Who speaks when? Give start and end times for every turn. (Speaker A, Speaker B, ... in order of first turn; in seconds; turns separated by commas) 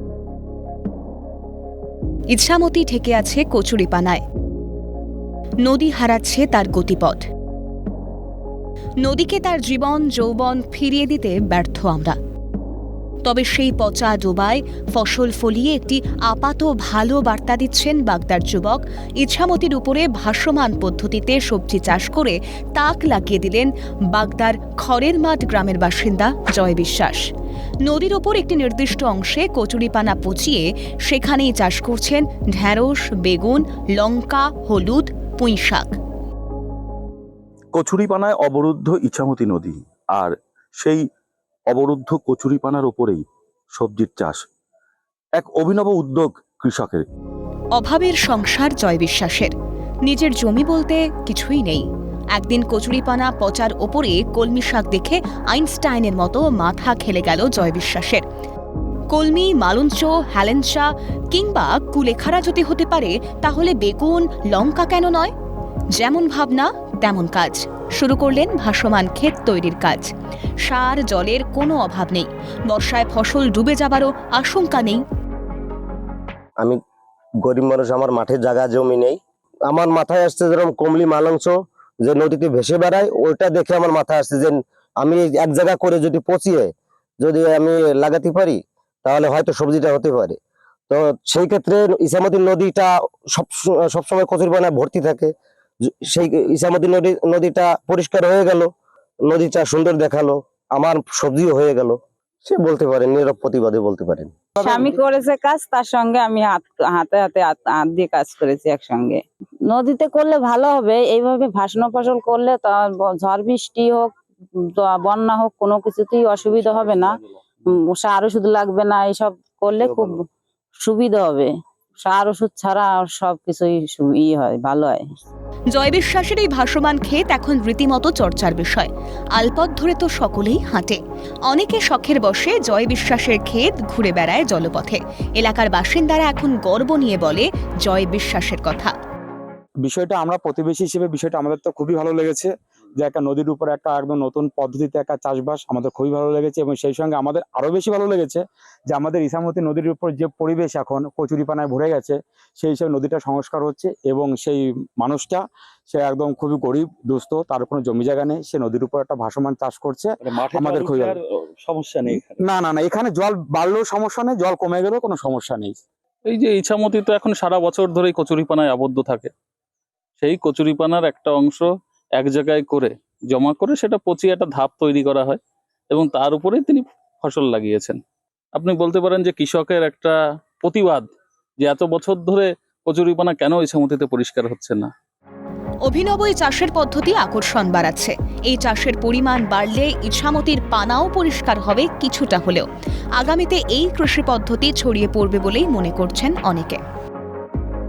Speaker A: 2.3-4.2, Speaker A: 5.6-7.3, Speaker A: 9.0-12.2, Speaker A: 13.2-27.2, Speaker A: 27.9-36.0, Speaker B: 37.7-41.0, Speaker B: 41.7-43.2, Speaker B: 43.7-44.4, Speaker B: 45.4-47.1, Speaker A: 47.8-49.5, Speaker A: 50.0-58.2, Speaker A: 59.1-65.3, Speaker A: 66.0-70.1, Speaker A: 70.7-75.0, Speaker C: 77.4-90.4, Speaker C: 90.9-95.3, Speaker C: 95.9-98.7, Speaker C: 99.3-105.0, Speaker D: 104.6-120.3, Speaker D: 120.8-121.5, Speaker D: 122.0-125.0, Speaker A: 125.7-138.9, Speaker E: 139.8-161.2, Speaker B: 160.2-162.4, Speaker E: 162.4-165.8, Speaker F: 166.3-169.3, Speaker F: 170.2-178.0, Speaker F: 178.6-181.1, Speaker F: 181.6-184.9, Speaker A: 185.8-196.8